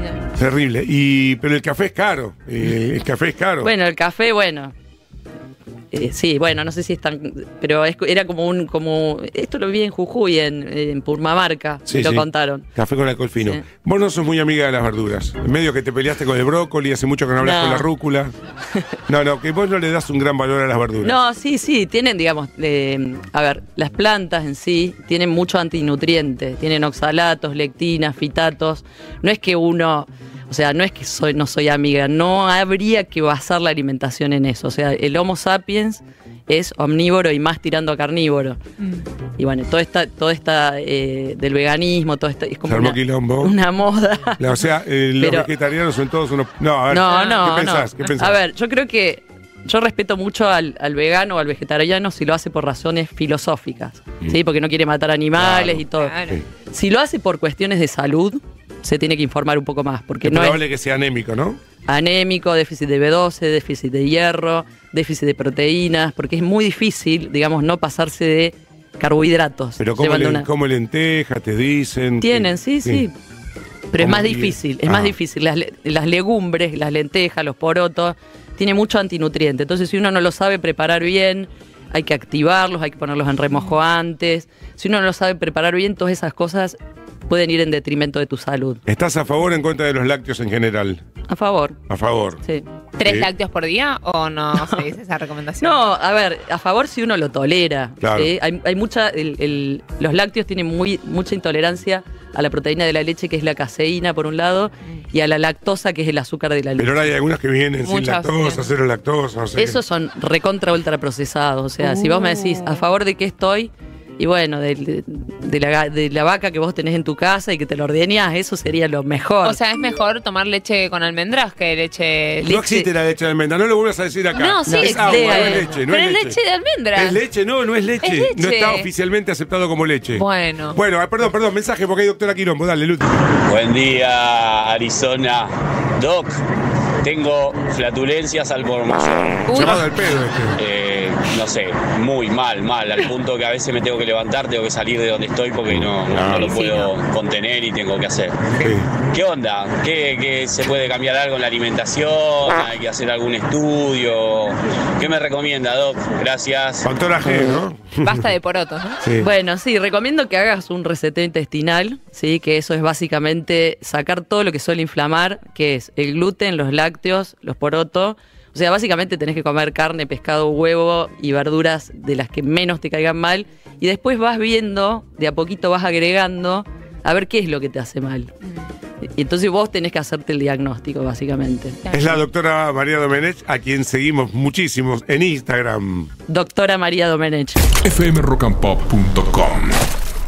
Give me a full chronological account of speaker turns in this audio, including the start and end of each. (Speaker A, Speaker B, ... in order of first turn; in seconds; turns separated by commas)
Speaker A: 0.3-3.7, Speaker B: 3.6-4.7, Speaker B: 5.9-12.7, Speaker A: 11.9-18.3, Speaker B: 17.4-17.9, Speaker A: 19.1-21.1, Speaker B: 21.0-38.6, Speaker B: 39.4-44.4, Speaker A: 42.7-43.5, Speaker A: 44.4-48.4, Speaker B: 45.2-45.5, Speaker B: 46.9-56.1, Speaker C: 47.1-47.4, Speaker A: 55.3-56.4, Speaker C: 55.9-56.3, Speaker B: 56.7-60.6, Speaker A: 60.2-61.6, Speaker B: 61.9-70.5, Speaker A: 69.8-73.0, Speaker B: 72.2-73.1, Speaker B: 73.9-86.8, Speaker A: 74.0-75.1, Speaker B: 87.3-88.8, Speaker A: 88.9-91.0, Speaker B: 91.3-91.8, Speaker A: 91.9-92.4, Speaker C: 93.0-95.8, Speaker A: 93.0-93.3, Speaker B: 94.6-94.8, Speaker B: 95.6-107.0, Speaker A: 98.0-98.3, Speaker A: 106.8-109.8, Speaker C: 107.8-108.7, Speaker B: 109.6-119.6, Speaker C: 111.8-112.8, Speaker C: 119.4-122.5, Speaker B: 122.4-122.9, Speaker A: 122.4-126.4, Speaker C: 124.3-127.2, Speaker B: 124.7-125.7, Speaker A: 126.9-133.1, Speaker C: 128.0-128.9, Speaker C: 130.1-130.8, Speaker D: 133.5-136.4, Speaker D: 137.0-139.6, Speaker C: 139.5-139.8, Speaker A: 139.5-140.6, Speaker D: 140.5-156.9, Speaker A: 145.7-146.5, Speaker C: 146.5-146.9, Speaker A: 148.5-148.9, Speaker A: 156.8-158.3, Speaker C: 158.0-159.0, Speaker A: 159.0-159.3, Speaker B: 159.2-178.3, Speaker B: 179.1-181.8, Speaker C: 181.8-182.2, Speaker A: 181.9-186.1, Speaker B: 186.3-187.6, Speaker E: 187.8-189.8